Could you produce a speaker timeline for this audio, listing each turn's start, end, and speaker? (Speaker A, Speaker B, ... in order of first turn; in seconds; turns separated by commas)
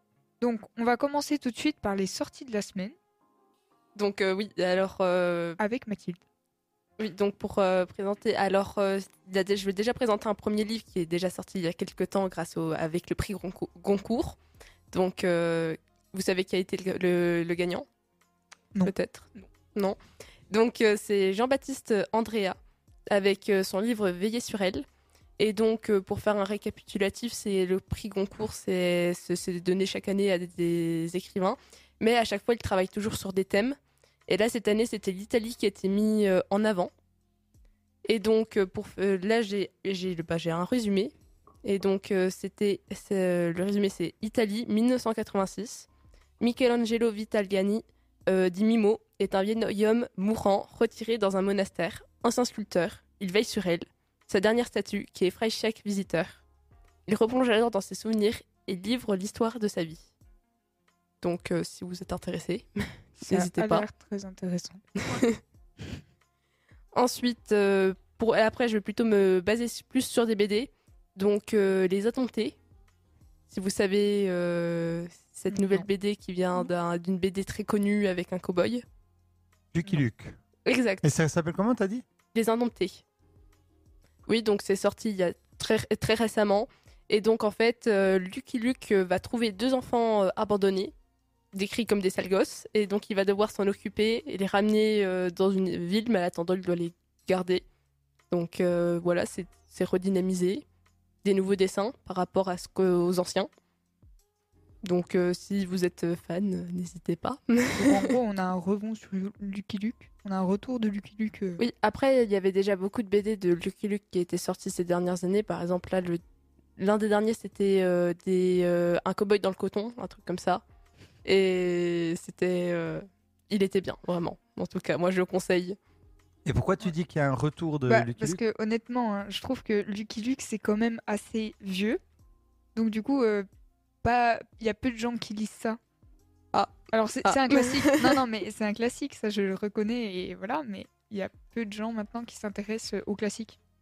Speaker A: 0.4-3.0, Speaker B: 4.0-5.6, Speaker A: 5.6-6.2, Speaker B: 7.0-14.4, Speaker B: 14.9-17.9, Speaker B: 18.9-20.0, Speaker B: 20.5-22.6, Speaker B: 23.1-24.9, Speaker B: 25.4-33.8, Speaker B: 34.3-36.9, Speaker B: 38.0-41.1, Speaker B: 41.6-45.9, Speaker B: 46.4-56.4, Speaker B: 57.1-60.0, Speaker B: 61.2-63.9, Speaker A: 63.2-64.8, Speaker B: 65.0-65.4, Speaker B: 66.9-72.6, Speaker B: 73.5-78.8, Speaker A: 75.5-75.8, Speaker C: 79.7-80.4, Speaker B: 80.7-81.1, Speaker C: 81.0-82.0, Speaker B: 82.3-83.0, Speaker B: 84.3-90.9, Speaker B: 91.5-97.7, Speaker B: 98.3-100.6, Speaker B: 101.2-103.5, Speaker B: 104.8-108.1, Speaker A: 107.8-111.6, Speaker B: 111.6-116.2, Speaker B: 116.8-120.6, Speaker B: 121.2-125.8, Speaker C: 126.4-128.4, Speaker A: 127.9-132.0, Speaker A: 132.8-133.5, Speaker A: 134.0-135.8, Speaker B: 136.5-138.2, Speaker A: 136.9-143.6